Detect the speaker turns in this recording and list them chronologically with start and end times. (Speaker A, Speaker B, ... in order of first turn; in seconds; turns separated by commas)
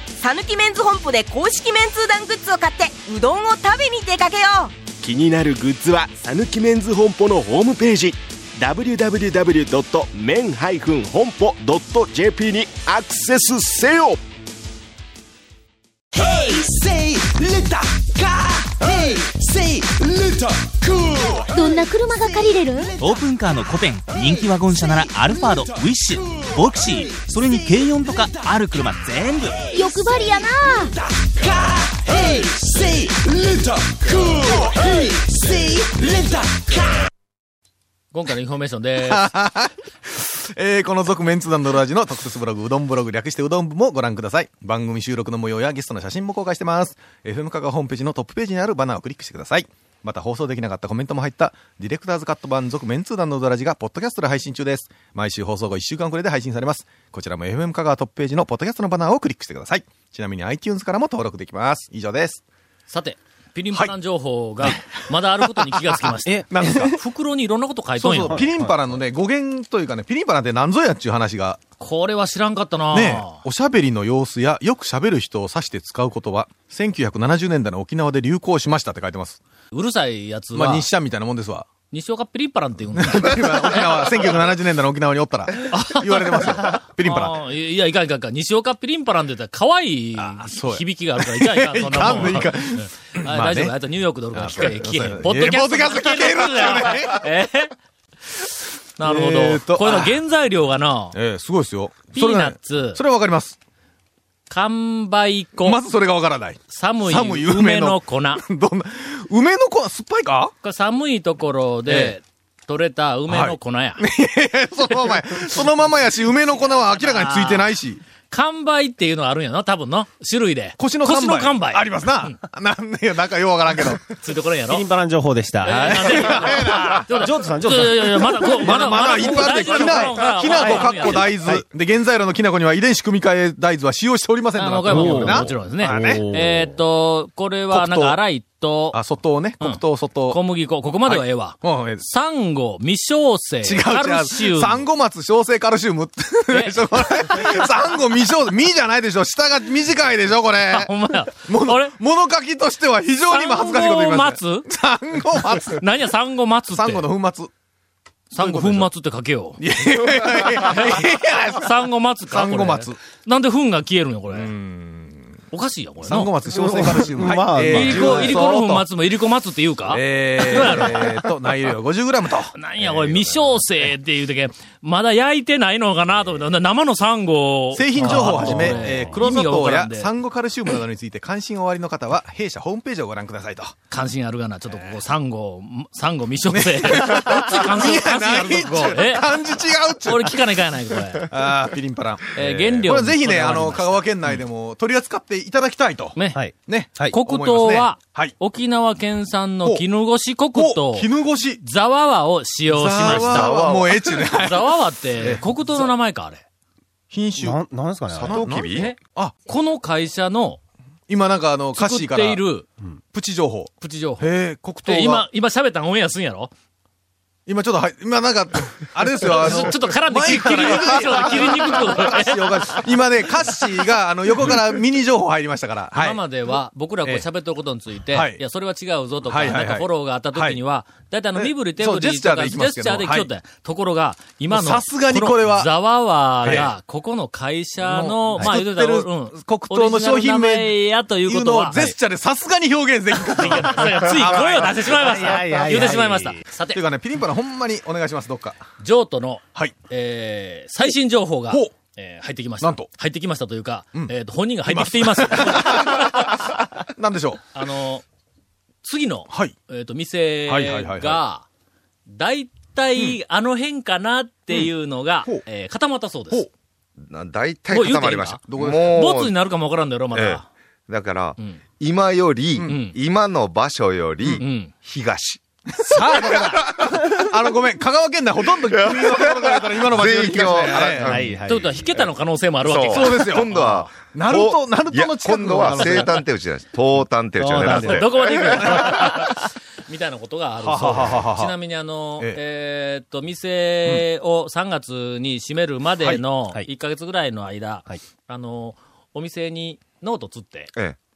Speaker A: 0.2-4.7, Speaker B: 5.0-14.2, Speaker B: 16.1-22.4, Speaker C: 21.5-22.9, Speaker D: 23.0-29.6, Speaker B: 25.5-26.5, Speaker B: 29.6-37.0, Speaker C: 29.7-30.9, Speaker E: 38.1-39.3, Speaker F: 39.0-62.4, Speaker E: 62.9-68.5, Speaker F: 64.6-67.0, Speaker G: 66.2-66.8, Speaker F: 68.0-71.6, Speaker G: 68.3-68.7, Speaker E: 71.8-73.4, Speaker F: 72.9-79.4, Speaker E: 79.7-80.9, Speaker F: 80.5-81.7, Speaker E: 81.9-84.4, Speaker F: 82.9-87.4, Speaker E: 85.7-97.7, Speaker F: 90.2-93.7, Speaker F: 94.3-97.2, Speaker E: 98.3-101.2, Speaker F: 99.0-100.2, Speaker F: 101.1-103.6, Speaker E: 102.1-103.0, Speaker E: 104.5-105.8, Speaker F: 105.6-110.5, Speaker E: 106.7-108.4, Speaker E: 110.6-114.0, Speaker F: 111.8-112.2, Speaker F: 113.3-118.0, Speaker E: 116.7-117.7, Speaker E: 118.3-122.3, Speaker F: 120.8-124.1, Speaker E: 124.2-124.8, Speaker G: 124.7-131.6, Speaker E: 125.6-131.4, Speaker F: 125.7-127.0, Speaker F: 128.5-136.7, Speaker E: 134.5-139.0, Speaker G: 134.9-136.5, Speaker F: 137.7-138.2, Speaker F: 138.9-140.4, Speaker E: 139.6-144.8, Speaker F: 141.0-142.0, Speaker F: 143.6-150.9, Speaker E: 146.5-147.7, Speaker E: 150.7-151.9, Speaker F: 151.4-155.8, Speaker E: 153.3-154.7, Speaker E: 155.5-157.1, Speaker F: 156.7-157.5, Speaker E: 158.3-159.6, Speaker F: 158.3-158.9, Speaker F: 159.6-161.7, Speaker E: 160.4-164.5, Speaker F: 162.3-163.0, Speaker F: 164.3-165.4, Speaker E: 165.5-166.3, Speaker F: 166.0-168.8, Speaker G: 166.5-168.4, Speaker E: 167.6-171.2, Speaker F: 169.9-173.7, Speaker E: 172.5-180.1, Speaker F: 177.7-183.8, Speaker G: 178.0-179.0, Speaker E: 183.9-189.3, Speaker F: 186.5-190.4, Speaker E: 190.0-191.3, Speaker F: 191.3-198.3, Speaker E: 192.3-194.3, Speaker E: 196.2-196.4, Speaker G: 196.3-197.1, Speaker E: 197.1-203.5, Speaker F: 200.5-201.6, Speaker F: 202.7-205.9, Speaker H: 203.0-204.1, Speaker E: 204.3-206.4, Speaker F: 207.1-207.6, Speaker G: 207.4-208.5, Speaker H: 208.1-208.9, Speaker F: 208.3-209.3, Speaker E: 208.7-210.6, Speaker F: 211.1-212.4, Speaker E: 211.8-212.7, Speaker F: 213.1-215.2, Speaker E: 213.8-214.3, Speaker E: 214.8-216.5, Speaker F: 217.4-226.2, Speaker E: 219.2-222.8, Speaker E: 225.9-241.8, Speaker F: 228.1-228.4, Speaker F: 229.2-230.6, Speaker F: 231.4-233.3, Speaker F: 234.5-235.7, Speaker F: 236.4-236.7, Speaker F: 237.8-245.2, Speaker E: 243.4-246.8, Speaker G: 244.9-246.4, Speaker F: 246.7-248.6, Speaker E: 248.8-256.4, Speaker F: 252.6-252.9, Speaker F: 254.6-257.4, Speaker E: 257.5-258.0, Speaker E: 258.8-261.4, Speaker F: 260.5-261.2, Speaker E: 262.1-266.4, Speaker H: 267.0-269.4, Speaker E: 267.7-270.4, Speaker F: 268.5-269.0, Speaker H: 270.1-275.4, Speaker F: 272.6-272.8, Speaker E: 272.6-273.0, Speaker E: 274.4-274.7, Speaker F: 275.8-281.2, Speaker H: 276.2-277.1, Speaker H: 278.7-281.3, Speaker G: 281.0-281.8, Speaker E: 281.4-283.9, Speaker H: 282.6-289.3, Speaker F: 282.9-283.5, Speaker F: 284.1-286.2, Speaker G: 287.4-288.1, Speaker E: 287.5-300.7, Speaker F: 288.4-289.1, Speaker F: 290.6-291.5